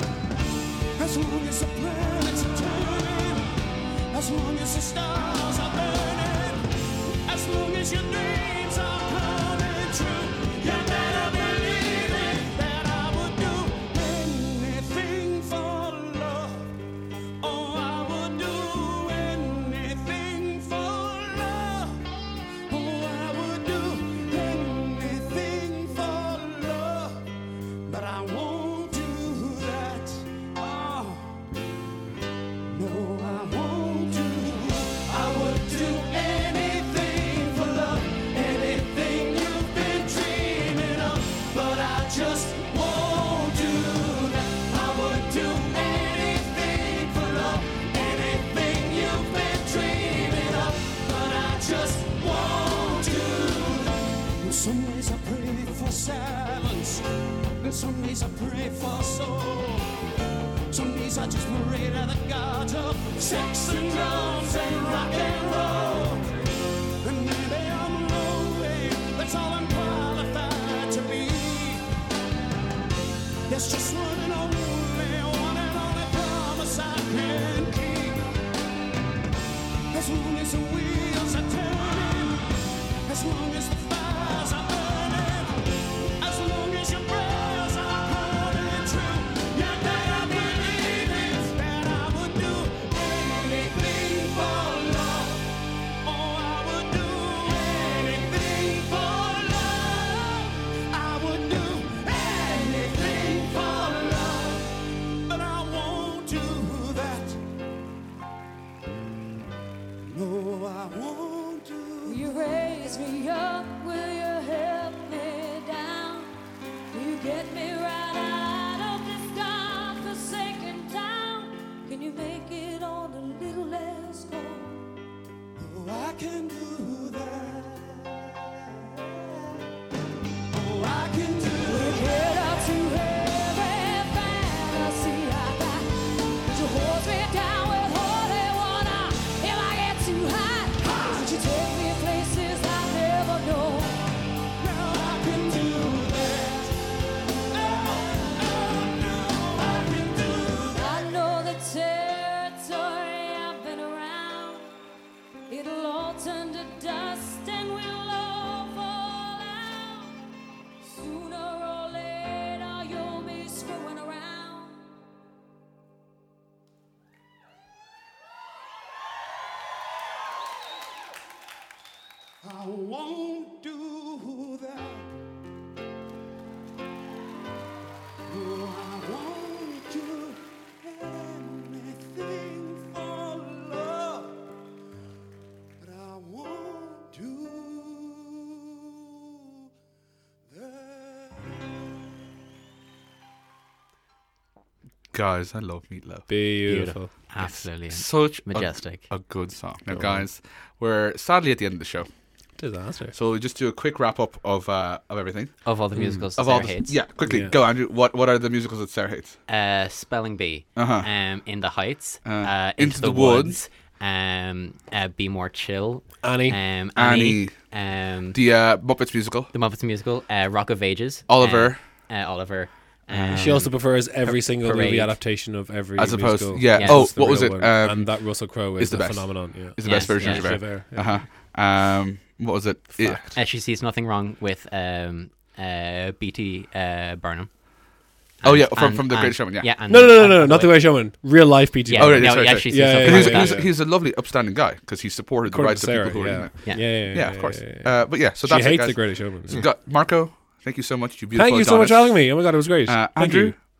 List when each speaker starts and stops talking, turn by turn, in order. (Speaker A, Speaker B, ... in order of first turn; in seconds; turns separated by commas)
Speaker A: 1.0-3.5, Speaker A: 4.1-6.7, Speaker A: 7.2-16.7, Speaker A: 17.4-22.1, Speaker A: 22.6-27.3, Speaker A: 27.9-31.4, Speaker A: 32.7-57.0, Speaker A: 57.6-59.9, Speaker A: 60.7-66.4, Speaker A: 67.0-71.8, Speaker A: 73.5-78.2, Speaker A: 79.9-82.5, Speaker A: 83.0-85.7, Speaker A: 86.2-95.5, Speaker A: 96.0-104.7, Speaker A: 105.2-107.4, Speaker A: 110.0-112.2, Speaker B: 112.0-116.3, Speaker B: 116.9-124.8, Speaker A: 125.6-128.3, Speaker A: 130.5-132.1, Speaker B: 131.6-144.0, Speaker A: 144.6-146.7, Speaker A: 147.5-150.8, Speaker B: 150.7-154.7, Speaker B: 155.5-160.2, Speaker B: 160.8-164.8, Speaker A: 172.4-175.1, Speaker A: 178.3-184.4, Speaker A: 185.8-188.6, Speaker A: 190.5-191.3, Speaker C: 195.1-196.3, Speaker D: 196.3-197.1, Speaker E: 196.7-199.1, Speaker C: 197.4-202.1, Speaker D: 199.9-200.2, Speaker D: 202.6-203.1, Speaker C: 203.1-205.6, Speaker E: 205.6-207.0, Speaker D: 205.9-206.7, Speaker C: 206.3-209.4, Speaker D: 207.2-207.5, Speaker E: 209.5-218.4, Speaker C: 210.8-211.1, Speaker C: 212.2-213.6, Speaker D: 216.2-216.6, Speaker C: 216.9-217.7, Speaker C: 218.3-219.5, Speaker E: 219.5-225.2, Speaker C: 221.3-221.8, Speaker C: 223.1-223.7, Speaker D: 223.3-231.2, Speaker C: 225.9-233.3, Speaker E: 226.7-227.1, Speaker E: 229.8-230.6, Speaker E: 233.2-237.6, Speaker E: 238.4-241.2, Speaker C: 238.4-239.7, Speaker D: 239.9-243.7, Speaker E: 241.9-243.6, Speaker C: 241.9-253.6, Speaker D: 245.5-249.6, Speaker E: 246.6-246.9, Speaker D: 251.3-253.5